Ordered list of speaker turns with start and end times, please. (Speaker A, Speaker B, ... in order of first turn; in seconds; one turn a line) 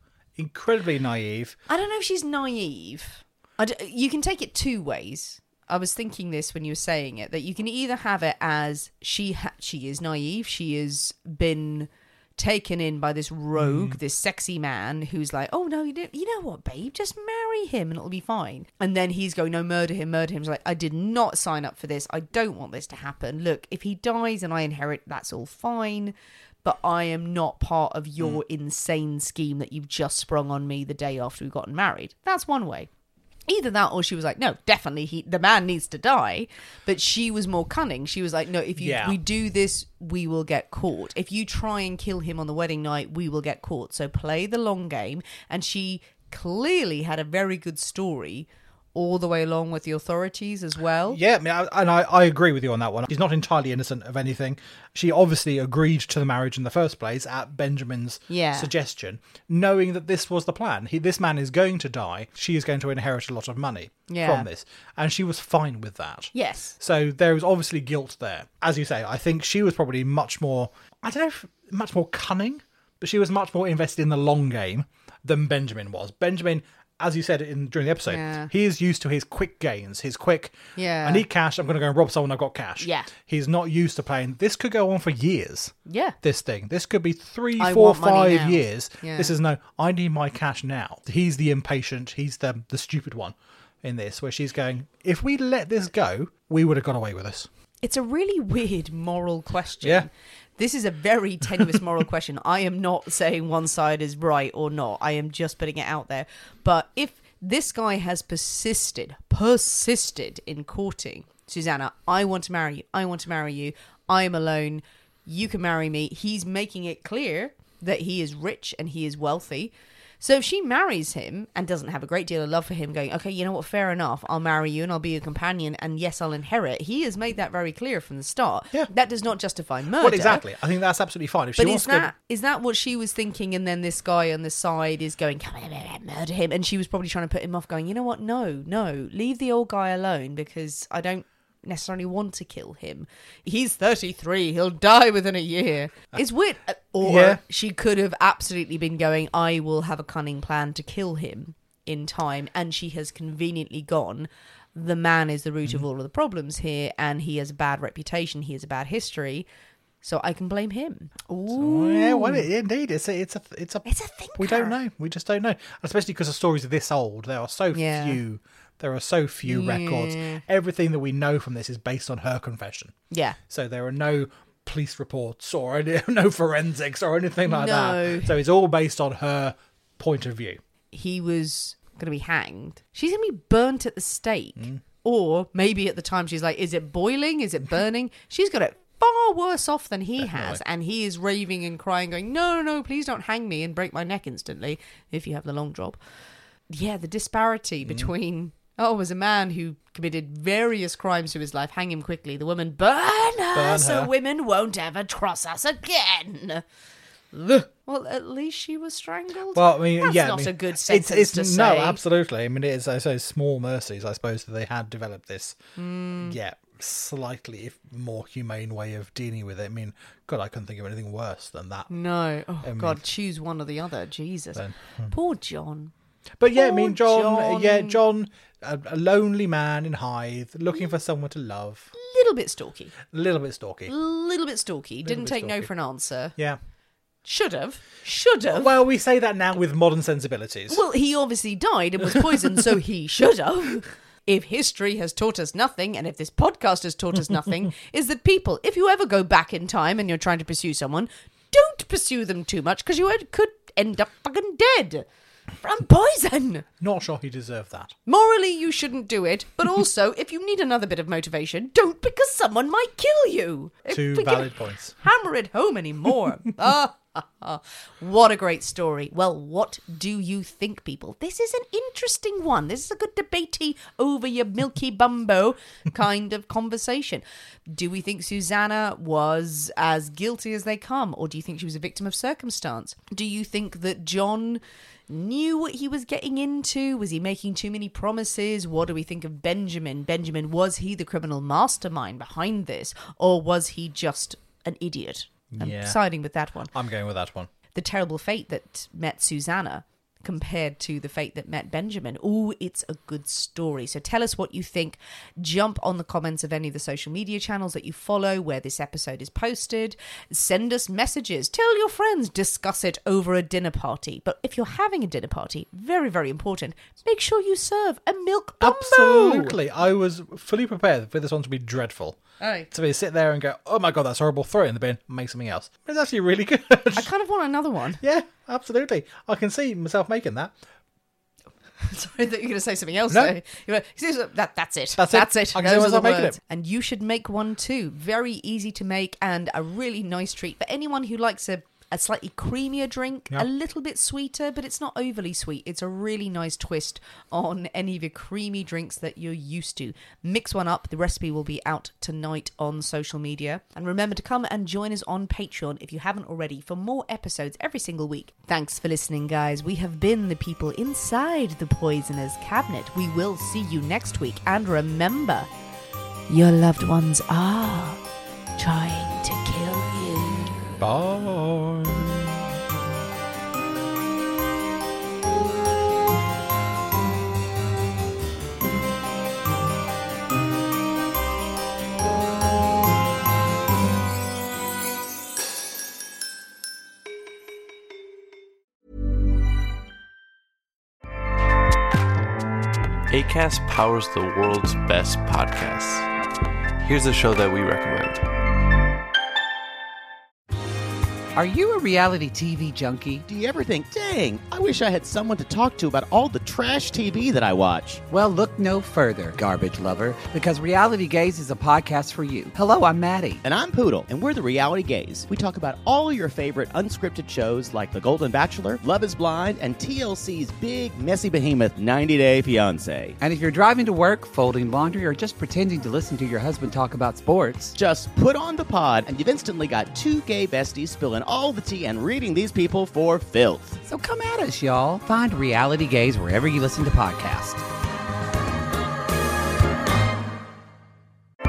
Speaker A: 0.4-1.6
Speaker B: 1.7-32.9
Speaker A: 13.6-14.0
Speaker B: 33.5-51.2
Speaker A: 38.8-39.2
Speaker A: 51.1-97.5
Speaker B: 58.3-58.7
Speaker B: 64.1-64.5
Speaker B: 66.3-66.8
Speaker B: 78.1-78.5
Speaker B: 80.8-81.2
Speaker B: 82.8-83.1
Speaker B: 85.9-86.2
Speaker B: 87.6-89.3
Speaker B: 97.8-130.4
Speaker A: 99.8-100.1
Speaker A: 130.0-132.1
Speaker B: 131.6-159.5
Speaker A: 147.0-147.4
Speaker B: 160.0-162.5
Speaker A: 161.5-172.9
Speaker B: 163.8-164.7
Speaker B: 167.7-168.2
Speaker B: 169.4-170.4
Speaker B: 173.1-173.4
Speaker A: 173.5-180.6
Speaker B: 177.5-178.3
Speaker B: 180.9-196.0
Speaker A: 184.6-184.8
Speaker A: 190.2-190.6
Speaker B: 196.7-206.6
Speaker A: 203.5-204.1
Speaker B: 207.3-212.0
Speaker A: 209.5-215.6
Speaker B: 215.8-216.4
Speaker A: 216.2-221.9
Speaker B: 221.9-225.9
Speaker A: 222.6-223.0
Speaker A: 224.6-225.1
Speaker A: 226.4-231.9
Speaker B: 226.5-228.0
Speaker B: 232.0-232.9
Speaker A: 233.1-233.9
Speaker B: 233.9-236.3
Speaker A: 235.1-235.7
Speaker B: 237.2-238.8
Speaker A: 238.5-240.8
Speaker B: 240.7-255.1
Speaker B: 255.6-256.7
Speaker A: 256.8-257.9
Speaker B: 258.1-296.7
Speaker A: 263.9-265.0
Speaker A: 295.5-296.0
Speaker A: 296.7-297.5
Speaker B: 297.7-319.6
Speaker A: 318.6-322.2
Speaker B: 322.4-322.7
Speaker A: 322.7-327.1
Speaker B: 327.0-328.0
Speaker A: 328.0-330.5
Speaker B: 331.8-365.5
Speaker A: 335.0-336.4
Speaker B: 366.3-368.0
Speaker B: 368.6-370.6
Speaker A: 370.8-372.4
Speaker C: 393.1-396.1
Speaker C: 396.8-398.2
Speaker D: 401.4-403.2
Speaker E: 403.3-408.0
Speaker D: 408.1-413.4
Speaker E: 413.4-423.2
Speaker D: 423.2-427.8
Speaker E: 427.8-433.8
Speaker D: 433.9-437.6